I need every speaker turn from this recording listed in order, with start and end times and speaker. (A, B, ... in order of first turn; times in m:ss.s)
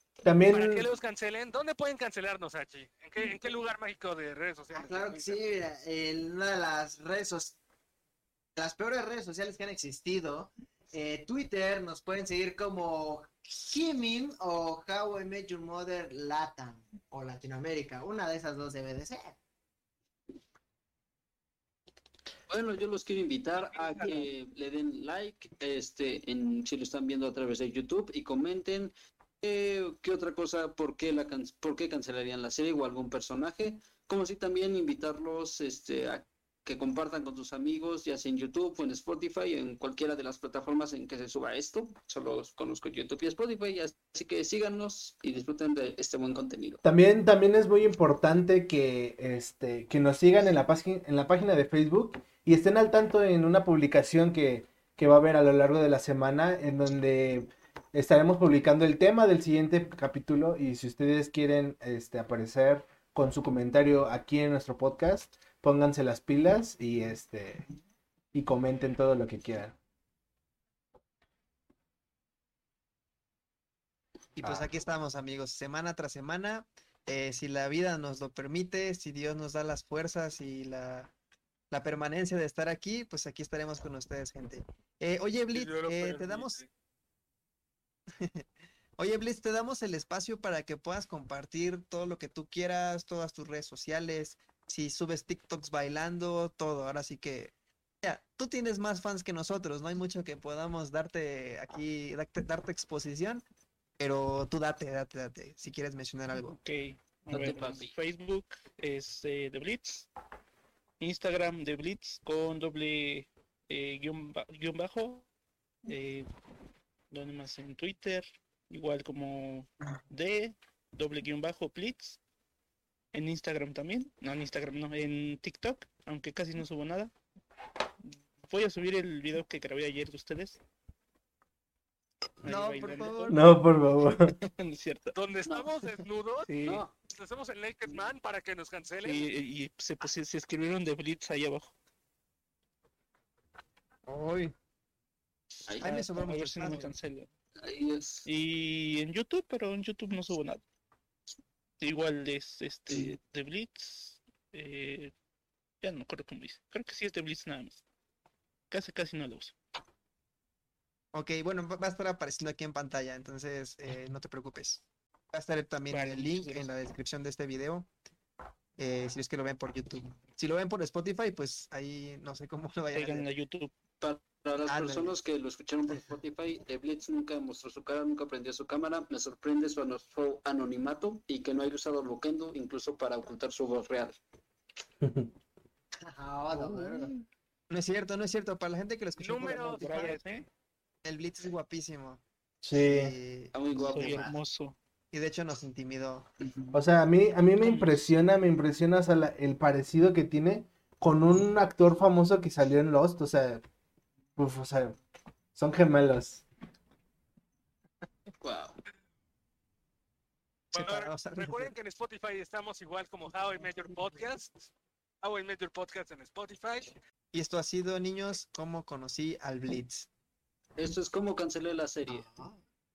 0:00.2-0:00.9 A
0:00.5-0:05.4 B
0:04.7-0:07.6 C
0:08.6-0:19.4 C
0:22.5-0:46.8 D
0:23.8-0:24.2 B
0:46.8-1:07.6 A
1:08.3-1:09.8 A
1:14.4-1:21.1 E
1:14.4-1:14.7 A
1:21.7-1:26.6 E
1:25.5-1:26.7 B
1:28.2-1:28.4 E
1:29.0-1:43.4 E
1:44.0-1:46.6 E
1:46.4-1:50.1 F
1:47.3-1:47.9 D
1:51.0-1:55.3 F
1:55.8-1:56.3 F
1:57.1-2:02.2 F
2:03.1-2:07.1 F
2:08.5-2:10.6 F
2:12.4-2:13.4 F
2:12.5-2:13.4 E
2:13.3-2:14.3 A
2:14.2-2:15.2 F
2:15.1-2:16.5 B
2:16.4-2:16.8 F
2:16.6-2:16.9 D
2:17.1-2:19.2 B
2:19.0-2:21.8 F
2:24.1-2:24.6 E
2:25.7-2:26.0 D
2:25.8-2:26.9 E
2:25.8-2:27.3 F
2:27.6-2:28.3 D
2:28.3-2:30.6 F
2:31.8-2:35.1 F
2:35.8-2:37.8 F
2:38.7-2:39.6 F
2:41.1-2:47.9 E
2:45.9-2:46.7 F
2:48.8-2:53.3 E
2:52.9-2:53.8 F
2:54.0-3:04.2 D
2:54.7-2:55.2 E
3:05.0-3:05.3 A
3:06.0-3:07.1 C
3:07.7-3:10.2 E
3:09.2-3:10.5 B
3:09.4-3:10.5 F
3:11.0-3:13.5 E
3:12.6-3:13.1 A
3:13.5-3:14.3 D
3:13.8-3:14.4 C
3:13.9-3:14.8 F
3:15.1-3:16.3 E
3:16.4-3:16.8 D
3:16.7-3:23.6 A
3:17.6-3:18.0 F
3:24.4-3:25.0 A
3:25.6-3:26.4 A
3:28.4-3:28.8 D
3:30.7-3:34.7 B
3:30.7-3:31.7 E
3:35.2-3:37.0 B
3:37.3-3:40.1 E
3:40.8-3:42.3 D
3:42.1-3:42.5 E